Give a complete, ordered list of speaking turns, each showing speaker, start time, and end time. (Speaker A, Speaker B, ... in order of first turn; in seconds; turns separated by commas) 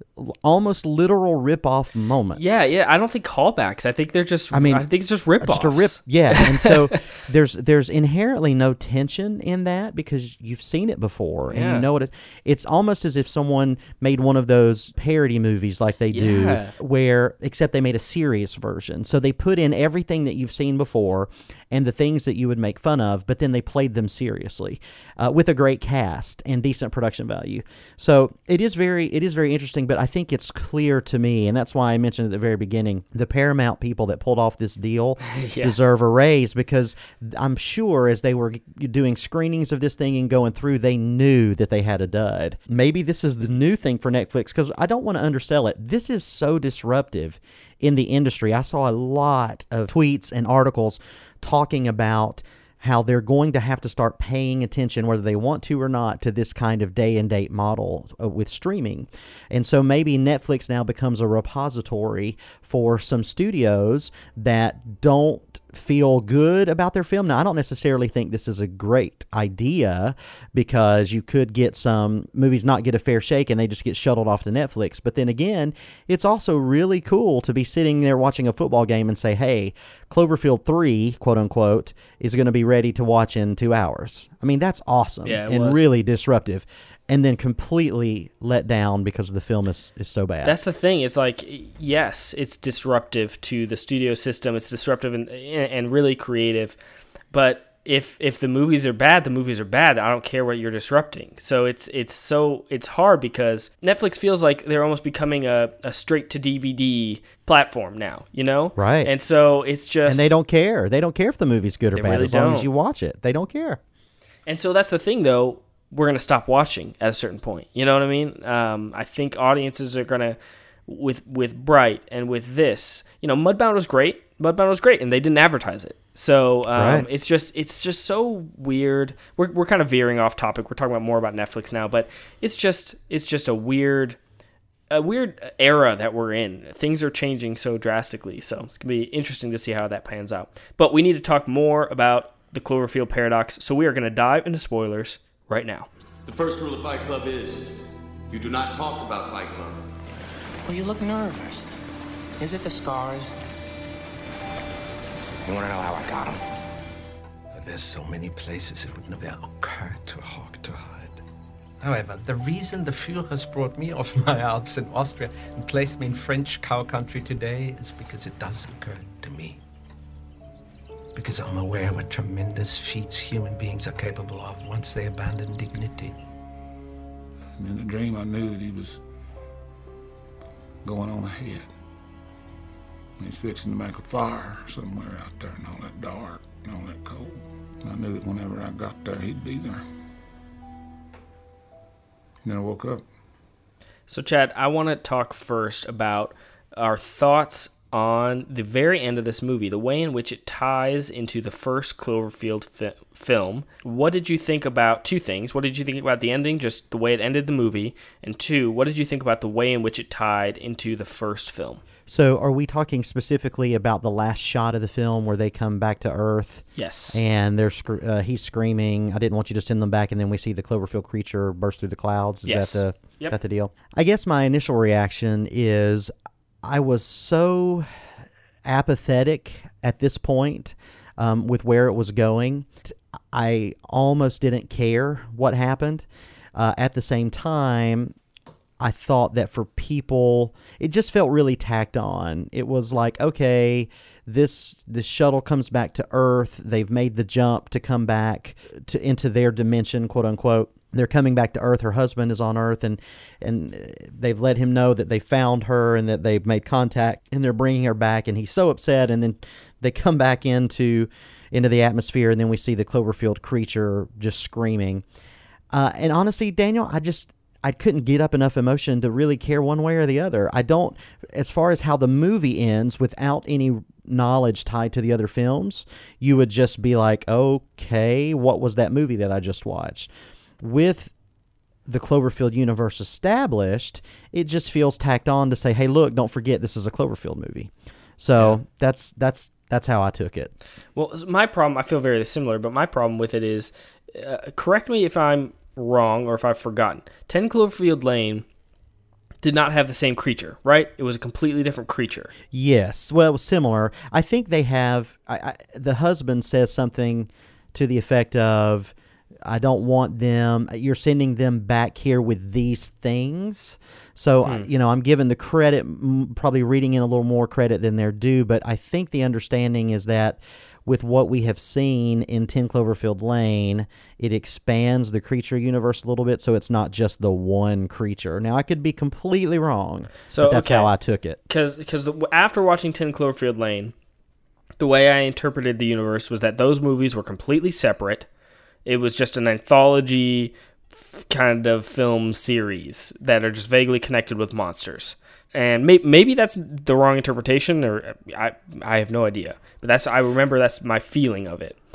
Speaker A: 0.2-2.7, Speaker B: 2.3-6.9, Speaker A: 4.5-4.9, Speaker A: 5.4-90.6, Speaker B: 11.5-11.8, Speaker B: 16.1-16.7, Speaker B: 35.2-35.8, Speaker B: 85.2-85.8, Speaker B: 90.4-96.8, Speaker B: 97.3-110.3, Speaker A: 108.8-109.1, Speaker A: 110.0-113.8, Speaker B: 111.9-112.7, Speaker B: 114.5-134.2, Speaker A: 126.7-127.0, Speaker B: 134.9-145.9, Speaker C: 146.2-147.7, Speaker C: 148.3-149.8, Speaker D: 150.6-151.6, Speaker D: 152.4-153.3, Speaker D: 155.4-156.4, Speaker E: 157.5-161.2, Speaker E: 161.8-169.6, Speaker E: 171.1-176.2, Speaker F: 177.6-179.0, Speaker F: 180.8-181.7, Speaker F: 183.2-189.8, Speaker F: 192.4-193.0, Speaker B: 194.1-211.8, Speaker A: 212.1-226.1, Speaker B: 216.8-217.2, Speaker B: 222.4-223.3, Speaker A: 226.6-227.9, Speaker A: 228.7-238.1, Speaker A: 238.8-265.0, Speaker A: 265.7-281.1, Speaker A: 281.9-290.5, Speaker B: 290.9-298.4, Speaker B: 299.4-302.3, Speaker A: 302.5-331.4, Speaker B: 314.4-314.7, Speaker B: 330.3-330.9, Speaker B: 331.5-333.9, Speaker B: 334.8-338.3, Speaker B: 338.9-351.8